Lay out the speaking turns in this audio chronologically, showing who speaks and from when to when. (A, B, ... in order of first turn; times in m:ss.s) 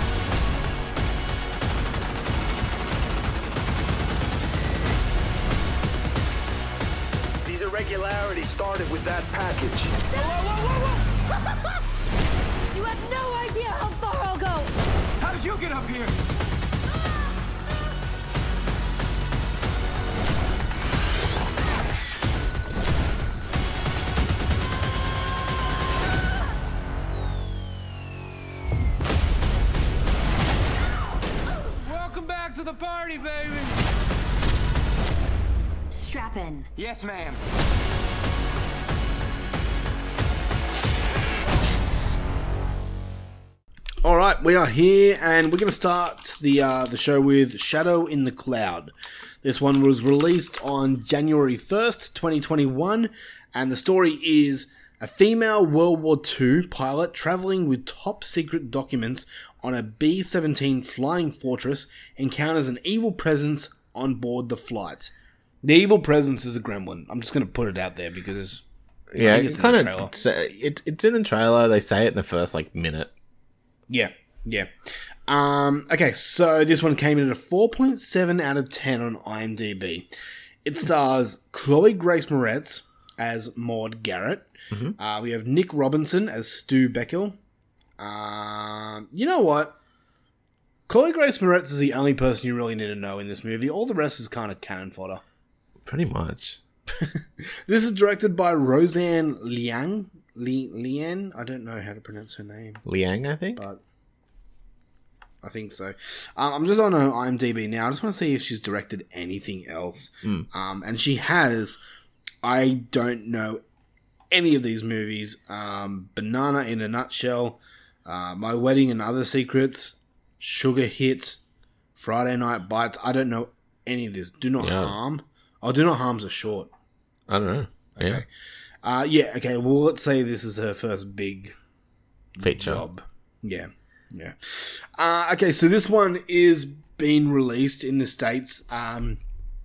0:07.4-0:09.9 A
0:10.1-0:10.4 B
0:10.1-0:11.0 C
0:12.7-0:14.7 B
0:15.2-0:16.2 C
0:31.6-0:33.8 C
0:35.9-0:36.7 B
0:36.8-0:37.4 C
0:44.0-0:48.9 D
0:49.4-1:05.1 D
1:05.6-1:08.6 D
1:09.1-1:13.1 E
1:09.2-1:10.1 D
1:13.9-1:14.7 D
1:15.3-1:20.1 D
1:20.6-1:27.4 D
1:28.0-1:29.8 D
1:30.9-1:35.2 D
1:35.8-1:36.6 E
1:37.7-1:42.8 D
1:42.8-1:43.6 E
1:43.6-1:43.8 D
1:45.4-1:51.8 D
1:52.4-1:53.6 D
1:54.3-2:01.4 D
2:02.0-2:06.7 D
2:04.6-2:04.9 E
2:07.3-2:08.2 E
2:07.9-2:08.3 D
2:08.8-2:11.5 D
2:12.4-2:19.2 D
2:12.4-2:12.8 E